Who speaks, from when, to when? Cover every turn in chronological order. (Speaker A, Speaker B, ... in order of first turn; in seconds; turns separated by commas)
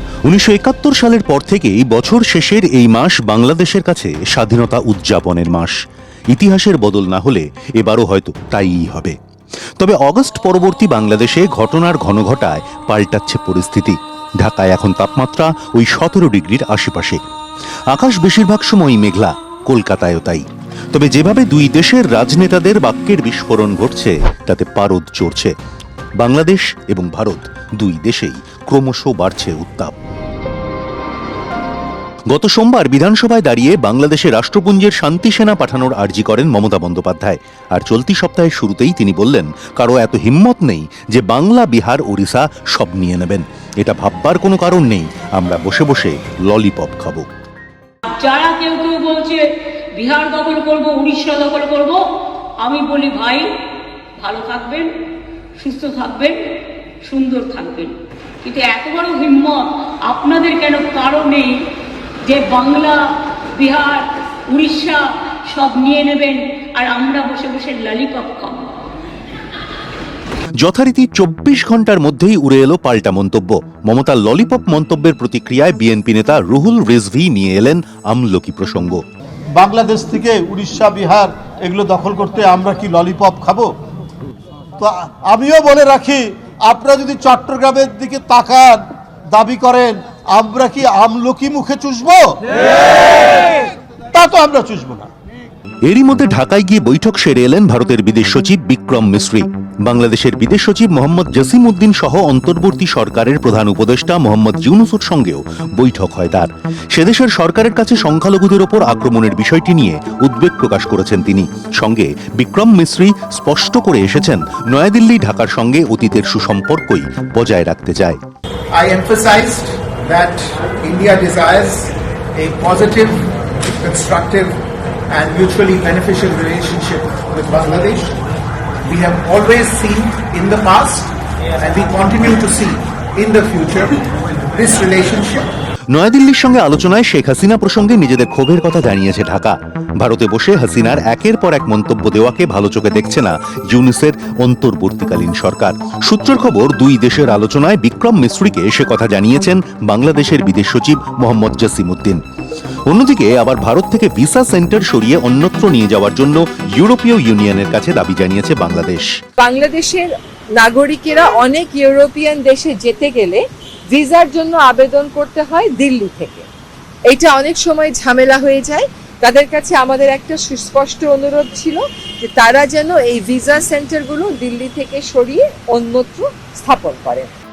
Speaker A: 0.2-5.7, Speaker A: 6.3-9.1, Speaker A: 9.8-17.2, Speaker A: 17.9-25.5, Speaker A: 26.2-29.9, Speaker A: 32.3-47.3, Speaker B: 48.1-52.0, Speaker B: 52.6-53.5, Speaker B: 54.2-54.9, Speaker B: 55.6-56.5, Speaker B: 57.0-61.6, Speaker B: 62.2-63.0, Speaker B: 63.5-68.8, Speaker A: 70.6-79.0, Speaker C: 79.5-83.7, Speaker C: 84.8-93.6, Speaker C: 94.1-95.1, Speaker A: 95.8-118.2, Speaker D: 118.7-124.6, Speaker D: 125.1-128.2, Speaker D: 128.8-135.5, Speaker A: 135.9-152.2, Speaker A: 152.9-159.1, Speaker E: 159.4-166.5, Speaker E: 167.1-177.3